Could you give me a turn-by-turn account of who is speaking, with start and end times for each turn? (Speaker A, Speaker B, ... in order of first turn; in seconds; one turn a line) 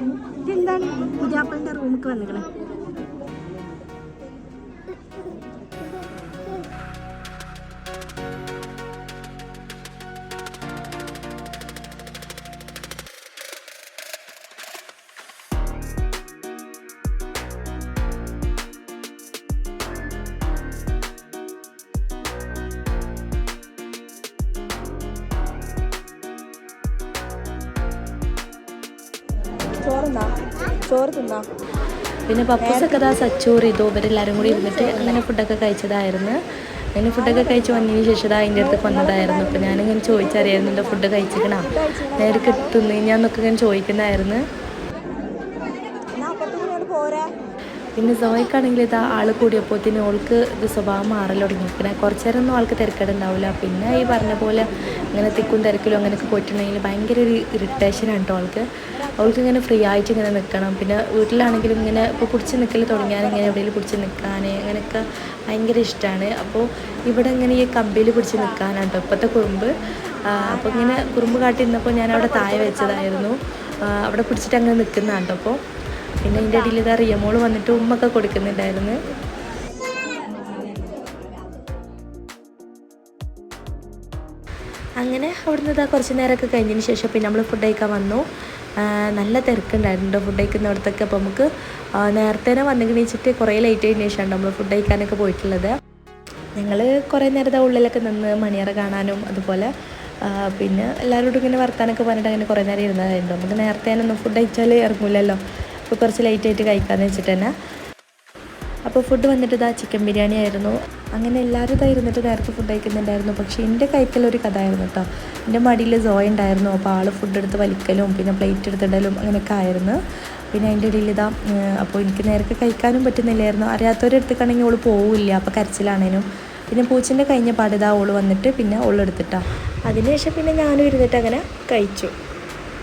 Speaker A: 0.4-2.5
Speaker A: 29.8-31.4
Speaker B: 32.3-36.4
Speaker A: 32.6-33.2
Speaker A: 34.4-35.2
Speaker B: 36.9-44.4
Speaker A: 37.2-37.7
Speaker A: 38.5-41.0
Speaker A: 41.7-42.7
Speaker A: 46.2-47.3
Speaker B: 48.0-58.6
Speaker B: 59.2-69.7
Speaker B: 70.2-75.6
Speaker B: 76.2-79.0
Speaker B: 85.0-88.2
Speaker B: 89.1-91.5
Speaker B: 92.0-95.7
Speaker B: 96.6-99.7
Speaker B: 100.2-107.5
Speaker B: 108.9-120.0
Speaker B: 120.5-132.1